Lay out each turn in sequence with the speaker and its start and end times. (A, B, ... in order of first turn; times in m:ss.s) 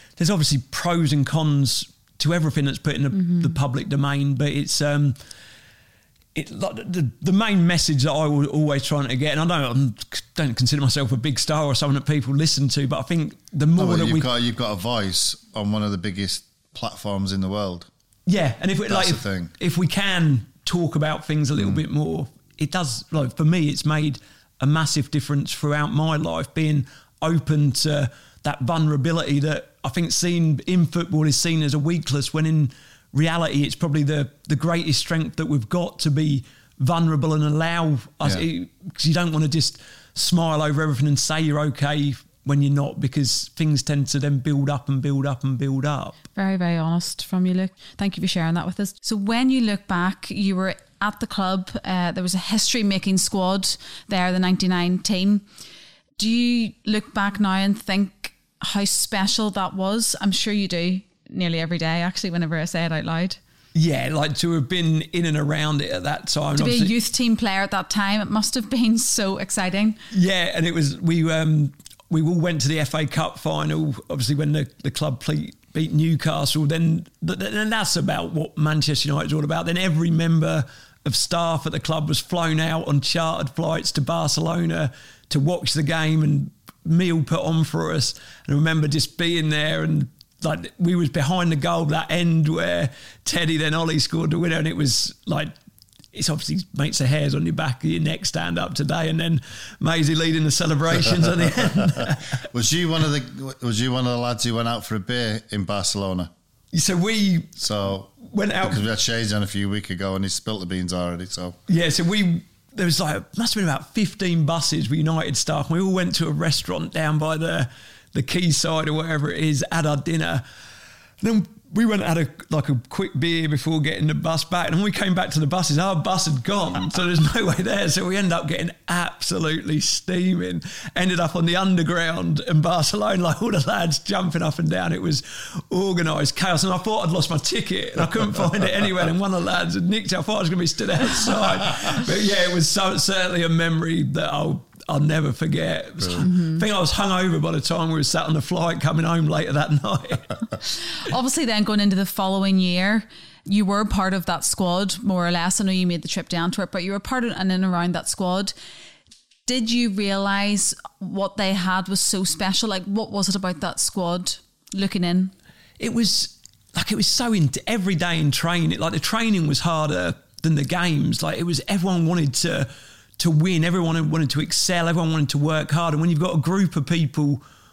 0:00.2-0:05.2 A
0:03.2-0:03.6 B
0:06.3-0:14.3 A
0:13.8-0:17.9 C
0:18.3-0:46.2 A
0:18.9-0:19.5 C
0:46.3-0:55.4 B
0:56.2-1:03.4 B
1:03.7-1:06.9 A
1:06.5-1:10.0 B
1:10.1-1:35.5 A
1:36.1-1:42.4 A
1:42.5-1:46.3 C
1:46.7-1:47.5 A
1:47.6-1:48.1 C
1:48.2-1:48.8 A
1:48.6-1:51.6 C
1:51.7-2:00.4 A
2:01.2-2:30.4 A
2:26.2-2:26.6 B
2:31.0-2:38.5 B
2:39.4-2:45.3 B
2:45.8-2:57.4 A